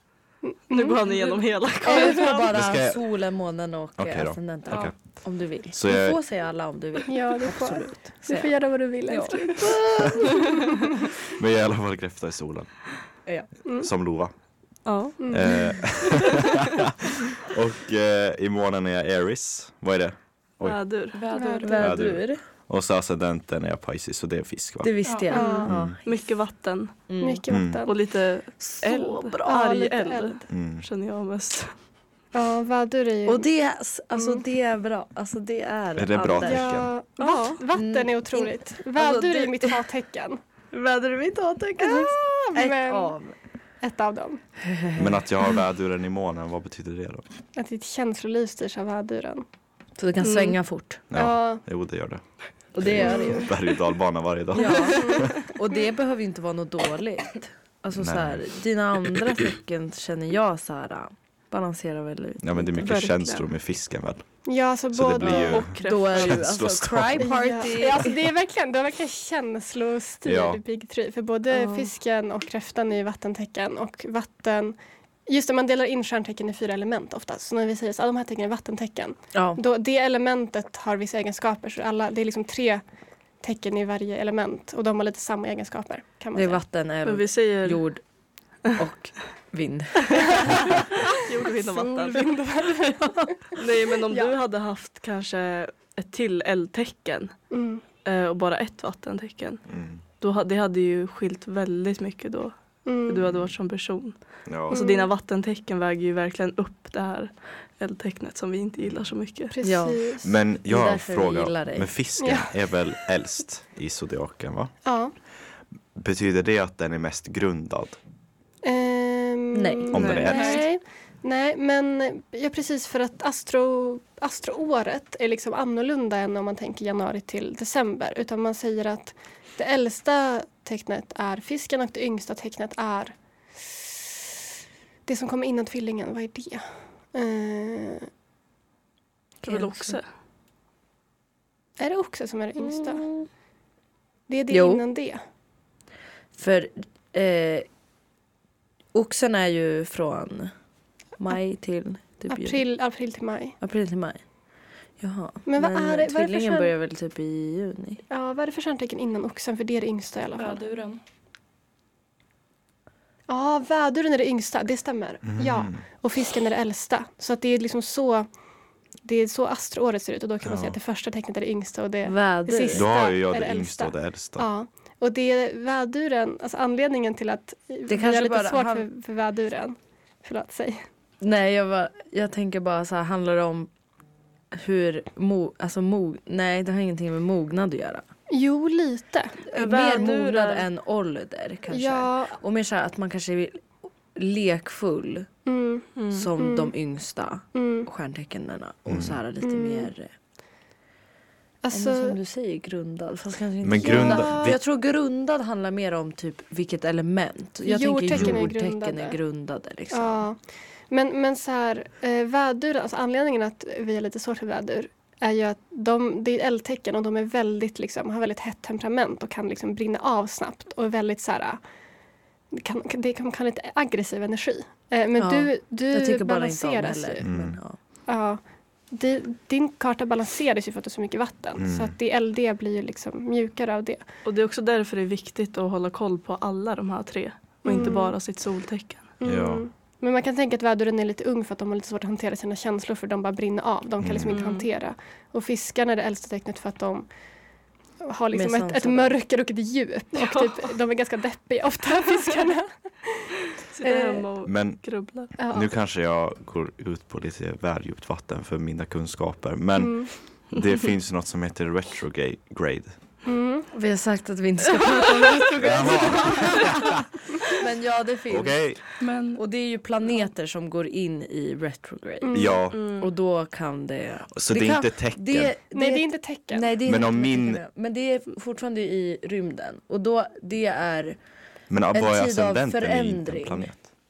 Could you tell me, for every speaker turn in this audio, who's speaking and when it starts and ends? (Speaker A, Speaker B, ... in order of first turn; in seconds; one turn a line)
Speaker A: 0.4-1.0
Speaker B: 0.7-2.5
Speaker C: 1.1-1.4
Speaker D: 1.8-10.2
Speaker A: 1.9-2.4
Speaker E: 2.5-3.2
Speaker E: 4.0-6.2
Speaker A: 7.1-9.8
Speaker E: 11.3-13.2
Speaker D: 13.3-13.5
Speaker A: 13.7-13.9
Speaker E: 13.8-16.3
Speaker B: 14.8-15.2
Speaker A: 15.2-15.5
Speaker E: 17.4-21.0
Speaker B: 20.6-21.8
Speaker C: 21.1-21.9
Speaker A: 21.3-21.8
Speaker D: 21.6-22.4
Speaker E: 21.8-25.0
Speaker D: 24.8-27.4
Speaker C: 25.0-25.3
Speaker A: 25.3-25.7
Speaker B: 25.3-31.8
Speaker E: 25.6-25.9
Speaker A: 27.2-27.9
Speaker E: 27.5-27.8
Speaker D: 28.6-29.5
Speaker A: 29.5-30.4
Speaker E: 30.5-30.9
Speaker A: 32.3-33.5
Speaker D: 33.3-36.9
Speaker A: 34.1-34.4
Speaker E: 36.0-36.9
Speaker A: 36.4-40.4
Speaker B: 37.2-37.6
Speaker D: 37.7-39.8
Speaker D: 40.7-43.4
Speaker A: 41.8-43.1
Speaker A: 43.8-44.4
Speaker D: 44.6-45.2
Speaker E: 45.0-47.2
Speaker A: 47.5-49.5
Speaker D: 50.0-51.0
Speaker B: 50.2-50.6
Speaker E: 51.1-55.5
Speaker A: 51.1-51.6
Speaker D: 52.7-53.5
Speaker D: 54.5-63.0
Speaker E: 58.0-58.6
Speaker E: 62.4-67.6
Speaker B: 62.8-63.5
Speaker A: 64.5-65.7
Speaker B: 65.2-66.5
Speaker D: 65.8-68.1
Speaker A: 67.2-86.6
Speaker E: 70.2-70.6
Speaker B: 71.5-71.9
Speaker D: 79.3-79.6
Speaker D: 86.3-90.7
Speaker B: 87.0-88.3
Speaker B: 91.2-92.4
Speaker A: 91.6-93.5
Speaker B: 93.5-109.5
Speaker A: 94.1-94.4
Speaker A: 97.5-97.8
Speaker E: 99.7-100.0
Speaker A: 102.8-103.3
Speaker E: 104.5-104.8
Speaker A: 104.7-105.1
Speaker A: 109.5-110.3
Speaker D: 109.6-111.9
Speaker E: 110.2-115.3
Speaker A: 112.2-113.0
Speaker A: 114.8-115.1
Speaker E: 115.9-118.0
Speaker A: 118.6-134.1
Speaker D: 119.5-120.3
Speaker E: 119.9-120.7
Speaker C: 120.0-120.7
Speaker A: 135.1-138.1
Speaker D: 139.4-140.0
Speaker B: 139.4-140.1
Speaker A: 141.8-143.1
Speaker D: 142.7-143.3
Speaker A: 144.3-145.2
Speaker D: 144.5-144.8
Speaker D: 146.4-147.7
Speaker D: 148.9-150.5
Speaker D: 151.2-152.7
Speaker A: 152.3-153.6
Speaker D: 153.6-154.4
Speaker D: 154.9-158.0
Speaker A: 155.5-156.7
Speaker A: 158.1-160.6
Speaker C: 160.3-161.0
Speaker A: 163.3-168.3
Speaker E: 165.2-165.8
Speaker A: 169.0-180.9
Speaker E: 170.4-170.8
Speaker D: 172.1-172.9
Speaker E: 172.7-174.5
Speaker D: 177.9-178.9
Speaker D: 181.2-183.7
Speaker D: 184.5-188.0
Speaker A: 188.3-189.4
Speaker D: 189.5-195.3
Speaker B: 189.5-190.7
Speaker A: 191.7-192.4
Speaker A: 195.5-196.7
Speaker B: 196.0-196.3
Speaker D: 196.1-200.1
Speaker A: 197.5-197.9
Speaker E: 198.9-199.2
Speaker A: 199.4-199.9
Speaker A: 201.6-202.2
Speaker D: 201.7-210.2
Speaker E: 203.6-204.6
Speaker A: 203.8-204.6
Speaker A: 207.6-209.2
Speaker E: 208.1-208.4
Speaker A: 209.9-221.6
Speaker A: 222.5-227.5
Speaker D: 225.2-227.8
Speaker E: 227.2-227.6
Speaker A: 228.1-234.0
Speaker E: 231.6-231.9
Speaker B: 234.2-239.2
Speaker A: 237.7-238.2
Speaker A: 239.2-247.2
Speaker E: 239.2-239.7
Speaker E: 244.0-244.5
Speaker B: 244.3-244.7
Speaker A: 248.0-254.3
Speaker D: 248.3-249.2
Speaker B: 250.1-250.8
Speaker B: 253.7-255.3
Speaker E: 254.4-263.2
Speaker A: 255.4-255.7
Speaker A: 259.8-260.1
Speaker A: 263.2-263.7
Speaker D: 263.7-281.2
Speaker E: 265.6-266.8
Speaker E: 268.3-269.0
Speaker C: 269.0-269.4
Speaker A: 272.2-272.6
Speaker E: 272.3-272.8
Speaker B: 272.7-273.1
Speaker E: 274.4-275.6
Speaker A: 275.7-276.7
Speaker E: 276.8-277.6
Speaker E: 281.7-283.8
Speaker D: 281.9-283.9